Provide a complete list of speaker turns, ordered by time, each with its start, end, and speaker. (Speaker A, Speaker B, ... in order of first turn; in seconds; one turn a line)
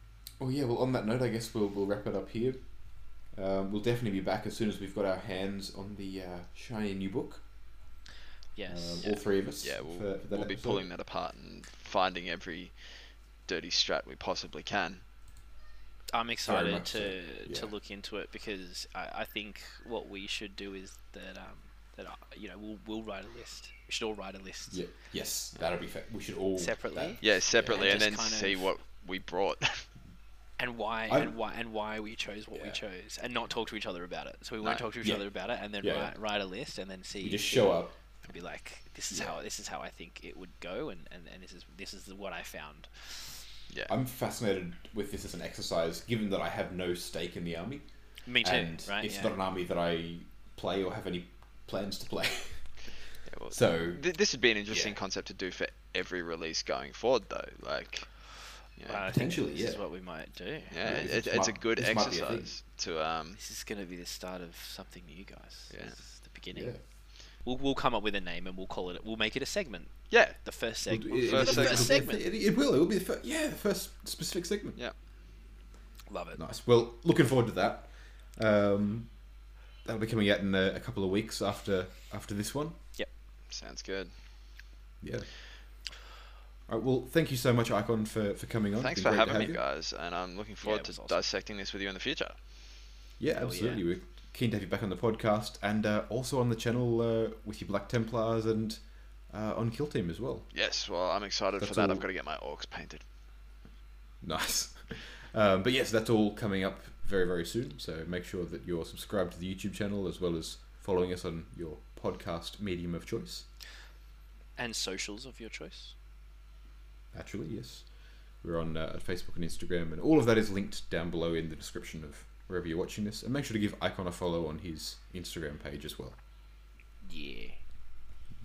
Speaker A: 0.4-7.5
Speaker B: 8.6-9.1
Speaker A: 8.7-10.9
Speaker C: 9.0-15.0
Speaker B: 16.1-25.0
Speaker A: 16.5-17.7
Speaker A: 24.7-28.1
Speaker B: 26.6-28.7
Speaker C: 27.2-29.9
Speaker B: 30.6-43.4
Speaker A: 31.1-31.4
Speaker A: 32.5-32.8
Speaker A: 35.0-36.2
Speaker A: 37.2-38.0
Speaker A: 39.1-39.4
Speaker A: 43.9-55.0
Speaker B: 48.2-49.4
Speaker C: 53.3-59.0
Speaker B: 58.9-61.0
Speaker A: 59.1-59.8
Speaker C: 60.7-63.4
Speaker A: 60.8-62.5
Speaker B: 63.4-72.2
Speaker C: 65.7-66.0
Speaker A: 66.5-66.8
Speaker C: 70.1-70.6
Speaker A: 70.9-74.8
Speaker C: 71.3-72.0
Speaker B: 76.1-76.4
Speaker A: 76.4-79.3
Speaker A: 79.8-82.9
Speaker C: 83.5-84.1
Speaker A: 85.0-85.4
Speaker A: 86.7-89.6
Speaker C: 88.8-92.4
Speaker B: 90.6-91.2
Speaker A: 93.2-100.5
Speaker B: 93.3-93.8
Speaker C: 100.5-103.0
Speaker A: 101.6-102.1
Speaker A: 104.2-113.5
Speaker B: 114.6-116.0
Speaker A: 117.1-126.2
Speaker B: 127.0-127.6